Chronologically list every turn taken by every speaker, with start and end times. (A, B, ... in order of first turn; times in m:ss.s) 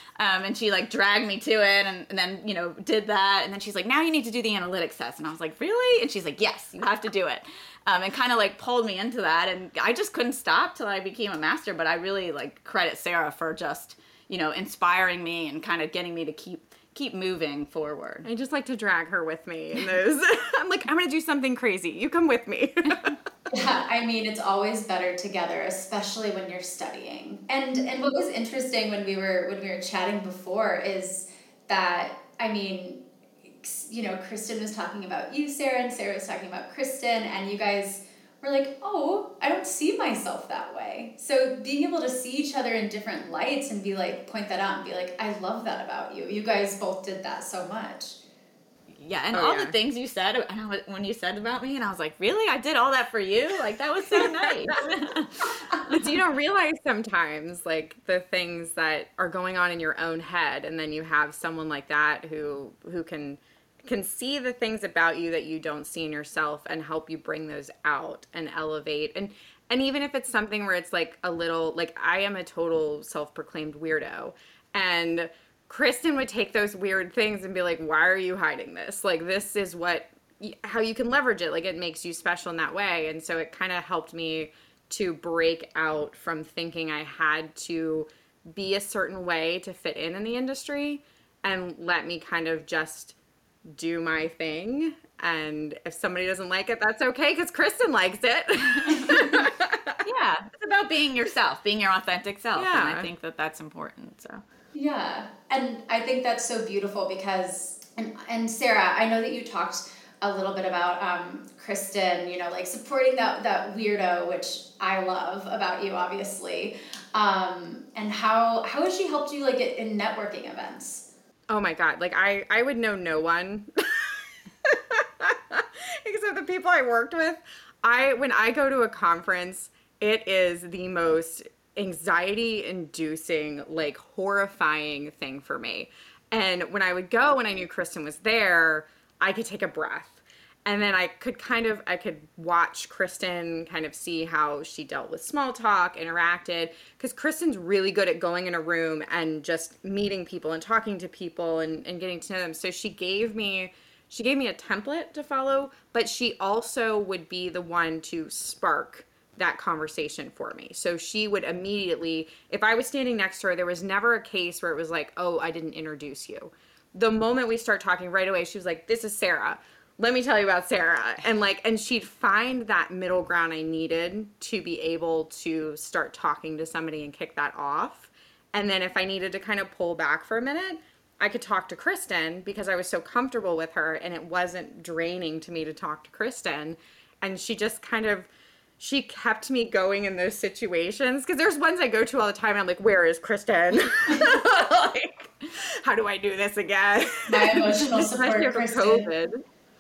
0:00.2-0:18.3 A
0:18.2-0:23.1 B
0:23.5-0:33.0 C
0:33.6-0:48.2 C
0:49.0-0:56.2 A
0:49.3-0:49.7 B
0:54.2-0:54.5 B
0:55.8-1:33.2 B
1:33.7-1:40.0 B
1:38.8-1:39.4 A
1:40.0-1:44.4 A
1:42.5-1:43.1 B
1:44.7-2:01.0 C
2:01.5-3:08.3 B
3:08.8-3:19.4 B
3:17.3-3:19.1 C